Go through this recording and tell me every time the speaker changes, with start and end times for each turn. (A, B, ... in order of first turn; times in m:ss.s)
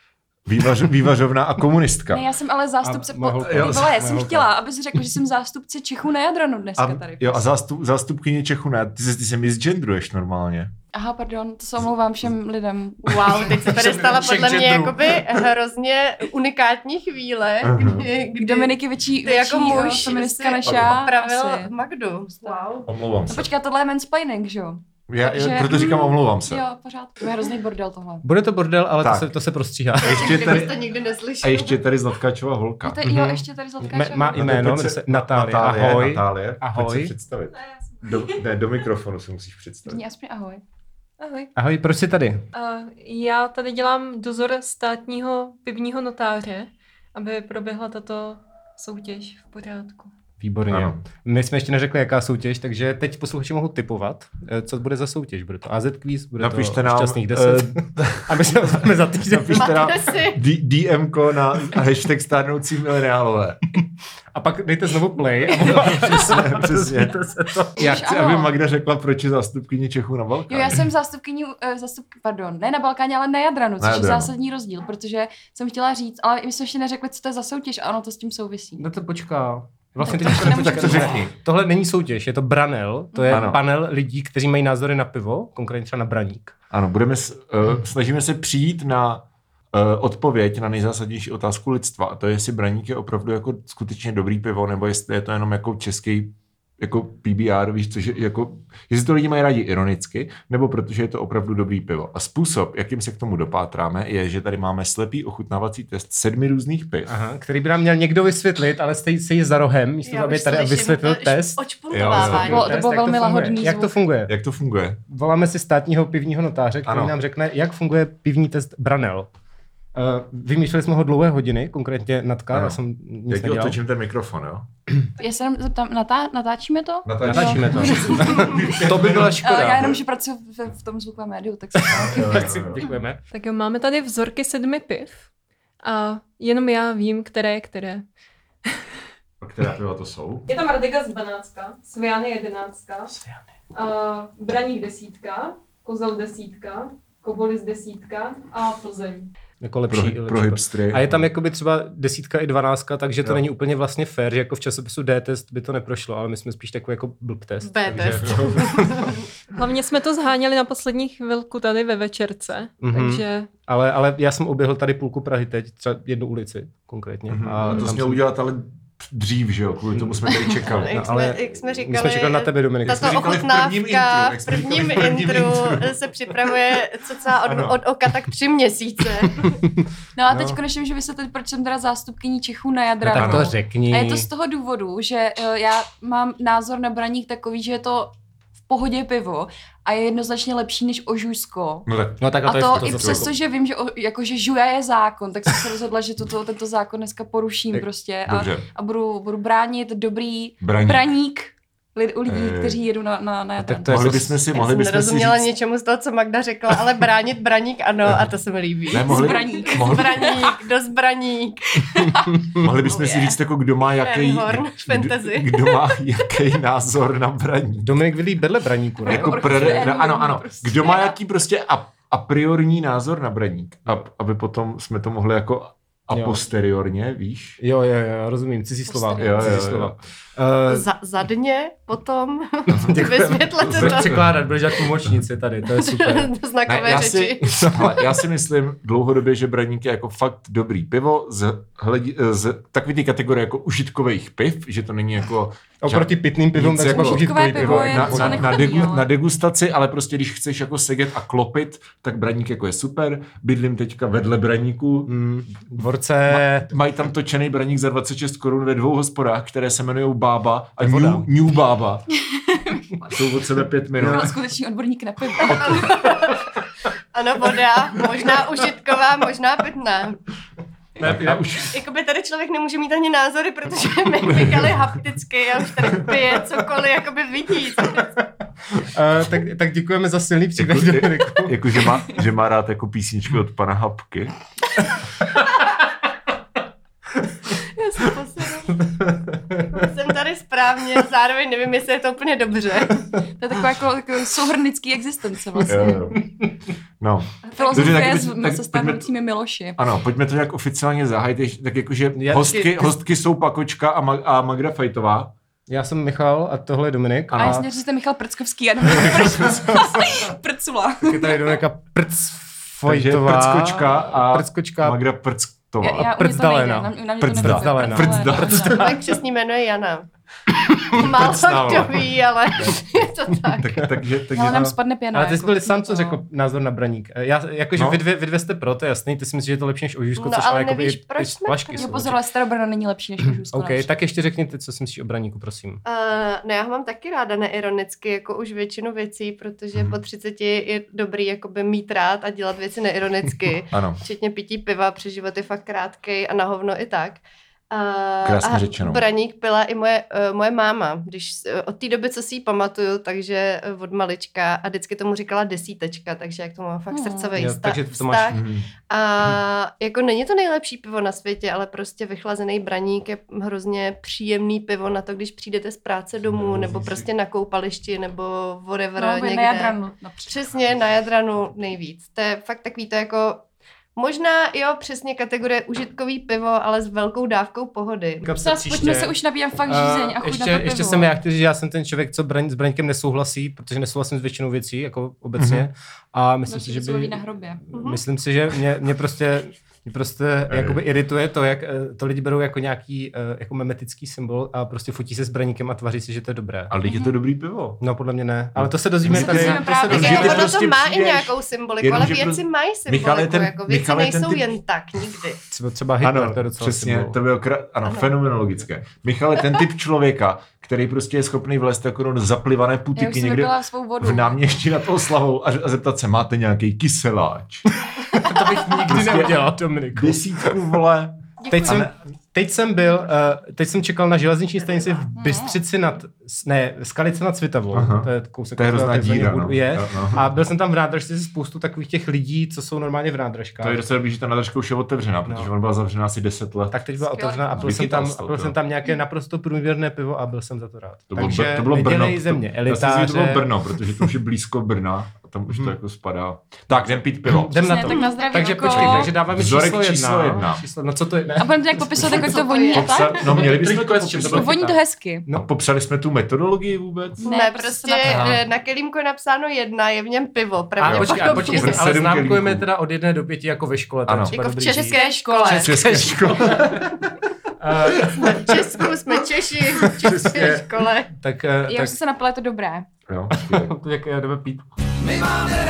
0:00.4-0:02.2 A
0:02.1-0:07.5 B
0:02.8-0:04.5 C
0:03.4-0:04.0 A
0:06.8-0:10.7 A
0:10.9-0:13.6 B
0:13.0-0:18.7 D
0:13.5-0:15.2 C
0:17.6-0:18.1 A
0:18.4-0:21.7 B
0:19.2-0:22.9 D
0:20.6-0:21.0 A
0:22.8-0:23.5 A
0:23.3-0:28.2 B
0:25.1-0:26.6 A
0:28.2-0:30.4 C
0:29.0-0:29.3 A
0:30.0-0:30.8 A
0:30.0-0:31.8 D
0:31.4-0:33.0 A
0:32.8-0:34.4 B
0:33.0-0:37.1 C
0:34.4-0:40.0 A
0:37.6-0:38.4 E
0:39.8-0:40.6 B
0:41.2-0:41.5 E
0:41.5-0:42.4 C
0:42.5-0:50.1 E
0:50.4-0:59.9 C
0:50.7-0:51.0 A
0:56.4-1:03.7 A
0:59.5-1:00.4 D
1:04.3-1:08.0 C
1:05.6-1:10.8 A
1:07.8-1:08.5 B
1:10.5-1:18.8 B
1:13.8-1:14.3 A
1:18.8-1:26.5 C
1:20.0-1:21.2 B
1:20.5-1:21.3 A
1:23.1-1:23.5 B
1:23.3-1:23.6 A
1:26.7-1:47.1 A
1:47.1-1:54.3 C
1:50.0-1:52.8 D
1:51.9-1:52.5 A
1:52.4-1:53.9 B
1:54.3-1:55.0 A
1:55.1-1:59.3 C
1:56.8-1:57.1 A
1:59.9-2:03.8 C
2:02.5-2:04.7 A
2:05.2-2:08.2 B
2:07.0-2:09.9 A
2:07.2-2:09.9 C
2:09.1-2:12.6 B
2:11.9-2:12.8 A
2:12.1-2:13.2 C
2:13.3-2:15.3 E
2:15.8-2:18.0 E
2:19.4-2:20.5 A
2:20.5-2:23.1 E
2:23.7-2:29.3 E
2:29.6-2:39.1 C
2:29.9-2:31.3 A
2:37.6-2:39.1 D
2:38.0-2:38.9 A
2:39.5-2:43.5 E
2:42.8-2:48.2 C
2:47.3-2:51.0 A
2:50.6-2:59.6 D
2:50.9-2:53.3 C
2:52.8-2:55.9 A
2:57.4-2:57.8 A
3:00.2-3:08.1 B
3:00.3-3:00.6 C
3:03.0-3:04.3 C
3:03.1-3:03.5 A
3:08.7-3:11.9 B
3:11.8-3:13.3 A
3:12.2-3:13.3 C
3:12.4-3:24.2 B
3:17.7-3:18.7 A
3:20.6-3:21.0 A
3:22.2-3:22.8 A
3:23.6-3:24.4 C
3:23.9-3:25.5 A
3:24.5-3:33.4 D
3:28.9-3:30.4 A
3:29.0-3:30.6 B
3:32.5-3:37.9 A
3:34.0-3:35.9 D
3:37.8-3:39.9 C
3:39.0-3:41.1 B
3:39.0-3:47.6 A
3:46.1-3:46.4 C
3:47.6-3:50.9 C
3:48.9-3:49.6 B
3:49.2-3:50.0 A
3:50.7-3:54.3 D
3:52.7-3:53.0 A
3:52.8-3:56.3 C
3:53.6-3:54.5 A
3:55.7-3:58.0 D
3:56.6-4:15.3 A
4:05.8-4:08.6 C
4:06.8-4:09.1 B
4:15.1-4:16.7 C
4:16.2-4:22.0 A
4:20.8-4:21.3 C
4:22.3-4:23.3 B
4:23.1-4:24.3 A
4:23.9-4:26.1 B
4:24.0-4:24.3 C
4:25.4-4:26.0 A
4:25.7-4:26.4 D
4:27.1-4:30.2 D
4:31.0-4:31.6 C
4:31.0-4:31.7 A
4:31.6-4:38.2 D
4:38.0-4:41.9 C
4:40.6-4:44.3 A
4:47.5-4:48.9 D
4:48.8-4:49.9 C
4:49.7-4:53.2 D
4:53.4-4:56.0 B
4:55.7-4:56.2 A
4:55.7-4:56.4 C
4:57.0-4:59.1 A
4:57.5-4:59.8 B
4:59.8-5:05.3 A
5:02.2-5:02.9 C
5:05.7-5:07.7 C
5:07.3-5:07.6 A
5:07.3-5:11.6 B
5:08.9-5:10.2 C
5:11.0-5:15.0 C
5:12.8-5:16.1 A
5:15.8-5:18.9 B
5:16.1-5:19.0 C
5:17.2-5:18.9 A
5:18.6-5:20.1 D
5:20.9-5:23.8 D
5:20.9-5:22.8 A
5:23.4-5:24.7 A
5:24.3-5:26.2 B
5:24.5-5:32.2 C
5:27.8-5:28.0 A
5:30.2-5:31.9 D
5:31.8-5:33.9 B
5:33.5-5:35.8 C
5:35.8-6:09.8 D
5:43.7-5:44.0 A
5:48.2-5:49.0 A
5:56.9-5:57.3 B
5:57.3-5:58.4 C
5:58.3-5:58.7 A
6:06.3-6:07.1 C
6:09.0-6:10.5 B
6:10.3-6:13.4 D
6:14.0-6:18.3 D
6:18.2-6:36.7 C
6:18.3-6:21.1 B
6:25.4-6:25.6 A
6:26.5-6:27.6 B
6:27.7-6:28.0 D
6:30.5-6:30.8 A
6:36.7-6:37.8 A
6:36.8-6:37.1 B
6:37.8-6:40.5 C
6:38.5-6:44.5 A
6:39.1-6:40.5 B
6:39.8-6:45.4 D
6:45.5-6:47.2 C
6:46.0-6:57.7 A
6:47.8-6:48.1 D
6:53.0-6:54.4 B
6:57.8-7:00.6 C
6:58.7-7:01.9 A
7:01.4-7:01.8 D
7:01.5-7:13.8 C
7:04.6-7:05.0 D
7:05.2-7:05.6 B
7:07.7-7:10.3 A
7:13.6-7:16.8 A
7:15.2-7:15.5 C
7:16.7-7:24.0 C
7:17.0-7:17.8 B
7:17.5-7:18.6 A
7:21.1-7:27.8 A
7:25.5-7:25.8 C
7:26.7-7:32.3 C
7:27.5-7:29.1 B
7:28.6-7:30.6 A
7:31.4-7:33.5 B
7:32.0-7:33.1 D
7:32.7-7:34.6 A
7:33.1-7:35.5 C
7:34.2-7:35.2 B
7:35.3-7:37.2 A
7:37.2-7:41.8 D
7:37.2-7:38.3 B
7:38.0-7:38.4 C
7:40.8-7:45.0 C
7:40.8-7:42.7 A
7:44.0-7:44.4 A
7:44.3-7:45.7 D
7:44.6-7:45.8 B
7:45.5-7:47.0 A
7:45.5-7:47.0 C
7:47.6-7:48.9 C
7:48.0-7:51.1 D
7:49.8-7:50.7 C
7:50.0-7:50.6 A
7:51.2-7:52.0 C
7:51.6-7:52.9 B
7:53.1-7:53.7 A
7:53.3-7:54.6 C